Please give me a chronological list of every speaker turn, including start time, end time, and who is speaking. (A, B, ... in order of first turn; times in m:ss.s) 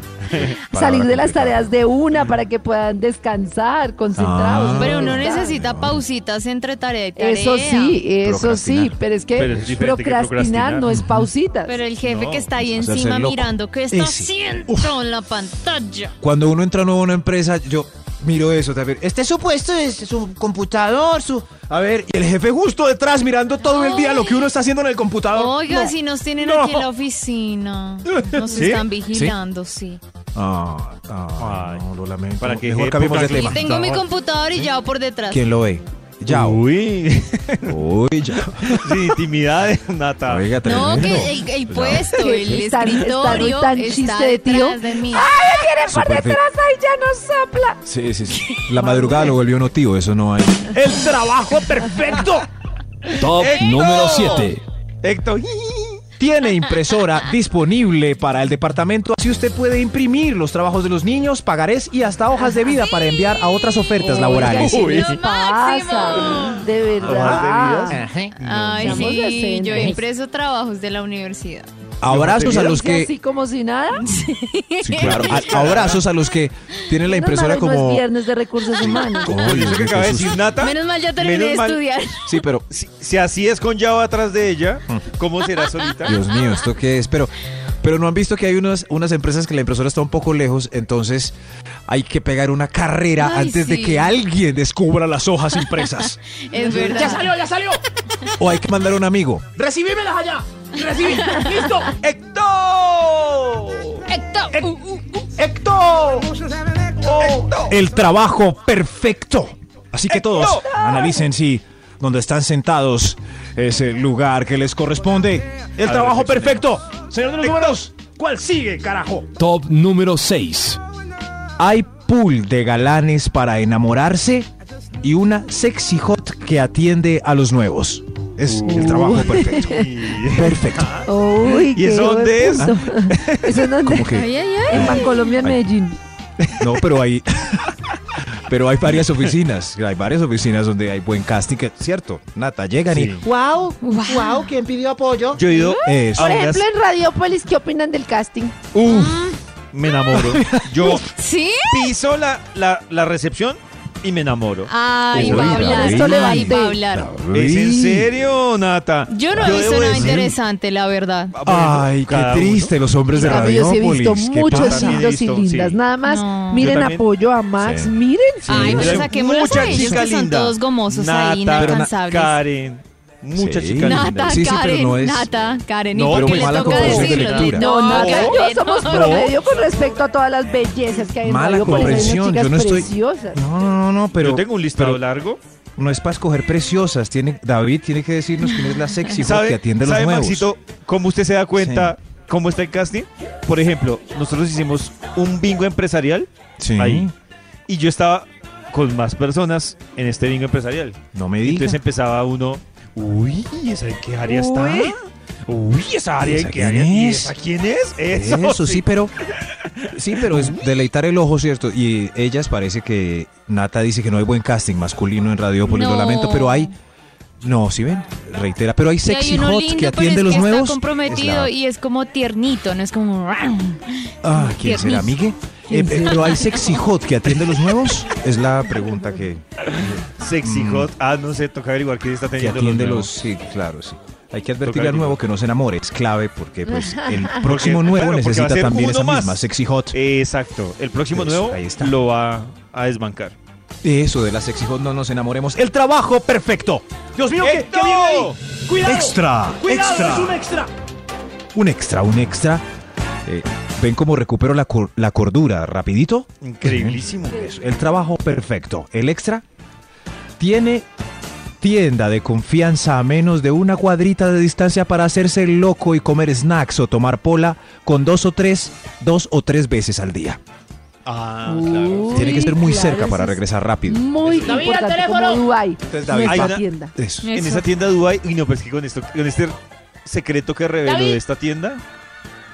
0:00.3-0:01.7 A
0:00.7-0:05.5 B
0:04.1-0:06.0 A
0:04.7-0:08.0 C
0:07.2-0:11.8 B
0:08.2-0:09.0 A
0:09.4-0:10.9 D
0:10.9-0:11.3 A
0:11.6-0:16.1 C
0:12.0-0:12.5 D
0:12.6-0:15.0 A
0:16.2-0:26.8 A
0:23.6-0:24.5 C
0:25.3-0:30.0 C
0:26.5-0:26.8 D
0:28.3-0:28.8 D
0:30.3-0:33.8 A
0:31.4-0:31.8 D
0:32.4-0:34.0 D
0:33.2-0:35.4 C
0:35.3-0:36.6 A
0:36.3-0:37.8 D
0:37.6-0:39.1 A
0:38.6-0:41.3 D
0:40.2-0:42.3 A
0:40.6-0:45.3 C
0:42.1-0:47.8 B
0:45.8-0:46.4 A
0:47.8-0:52.4 A
0:48.8-0:49.3 B
0:53.1-0:54.6 E
0:53.3-0:54.5 D
0:55.0-0:56.0 D
0:56.2-1:05.0 A
1:02.5-1:03.0 C
1:04.0-1:08.0 B
1:04.2-1:06.6 C
1:04.5-1:05.2 D
1:07.0-1:09.1 D
1:07.1-1:07.4 A
1:07.9-1:08.3 F
1:08.4-1:11.7 C
1:08.8-1:10.0 B
1:12.0-1:13.1 A
1:12.0-1:12.7 D
1:12.4-1:14.0 B
1:14.0-1:15.7 C
1:14.8-1:18.0 A
1:15.0-1:16.0 D
1:17.0-1:19.4 B
1:18.7-1:19.2 C
1:19.1-1:20.5 A
1:19.2-1:21.8 D
1:20.5-1:22.3 C
1:22.2-1:22.6 A
1:22.7-1:26.2 D
1:26.0-1:31.3 A
1:26.1-1:26.4 C
1:31.9-1:36.2 A
1:33.2-1:34.1 C
1:36.5-1:37.4 C
1:36.5-1:37.8 F
1:38.4-1:39.5 A
1:39.5-1:41.9 F
1:40.9-1:41.8 C
1:42.0-1:44.0 D
1:44.1-1:45.2 C
1:45.3-1:47.6 F
1:47.0-1:47.8 D
1:47.7-1:59.3 A
1:50.1-1:50.7 D
1:50.6-1:51.2 B
1:55.8-1:56.7 D
1:57.4-1:57.8 D
1:59.4-2:00.8 E
2:01.6-2:04.5 A
2:05.0-2:11.0 A
2:08.4-2:13.5 D
2:08.6-2:09.8 B
2:11.0-2:14.2 B
2:13.8-2:15.6 A
2:14.1-2:15.2 C
2:14.7-2:16.0 B
2:16.6-2:17.7 A
2:18.3-2:23.2 A
2:22.9-2:23.2 D
2:23.2-2:25.4 F
2:23.8-2:24.5 C
2:25.3-2:26.6 D
2:25.5-2:25.8 C
2:25.8-2:26.4 A
2:26.1-2:28.6 B
2:28.7-2:31.1 D
2:28.8-2:29.4 C
2:30.1-2:31.0 A
2:31.0-2:31.9 C
2:31.6-2:35.8 D
2:34.7-2:37.1 C
2:35.1-2:38.2 A
2:35.3-2:36.8 B
2:37.3-2:40.3 D
2:39.1-2:41.3 C
2:39.3-2:40.3 A
2:41.3-2:43.5 D
2:41.4-2:45.0 A
2:43.1-2:48.9 B
2:44.5-2:45.8 D
2:46.0-2:46.7 C
2:46.6-2:47.0 D
2:47.6-2:47.9 A
2:48.4-2:50.0 A
2:48.5-2:52.4 C
2:48.5-2:54.5 D
2:51.5-2:51.9 A
2:53.3-2:55.3 A
2:53.8-2:59.4 C
2:55.9-2:59.2 D
2:56.0-2:57.7 A
2:56.8-3:03.4 B
3:01.2-3:05.0 A
3:01.7-3:02.0 D
3:04.2-3:05.4 D
3:05.8-3:10.5 A
3:09.2-3:17.1 D
3:11.6-3:11.9 A
3:16.6-3:17.1 A
3:17.7-3:28.8 D
3:21.1-3:21.8 A
3:26.2-3:27.3 A
3:28.1-3:29.1 A
3:29.5-3:30.6 D
3:29.9-3:36.7 A
3:35.6-3:36.7 C
3:37.4-3:41.5 A
3:39.0-3:45.2 C
3:44.2-3:50.9 A
3:45.7-3:46.2 B
3:45.8-3:46.7 C
3:50.2-3:53.1 D
3:52.4-4:00.0 A
3:54.6-3:55.2 D
3:57.4-4:03.4 D
4:01.1-4:02.0 A
4:03.8-4:10.7 A
4:07.4-4:08.4 D
4:08.7-4:10.7 F
4:09.8-4:10.3 D
4:11.5-4:12.6 A
4:13.2-4:19.4 A
4:16.4-4:17.4 D
4:20.4-4:20.9 A
4:21.6-4:30.4 A
4:31.0-4:32.4 D
4:31.4-4:36.9 B
4:32.1-4:34.4 A
4:34.2-4:34.5 D
4:34.4-4:35.5 F
4:35.9-4:37.3 A
4:36.2-4:36.6 D
4:37.2-4:37.6 C
4:37.3-4:41.8 D
4:40.8-4:41.2 C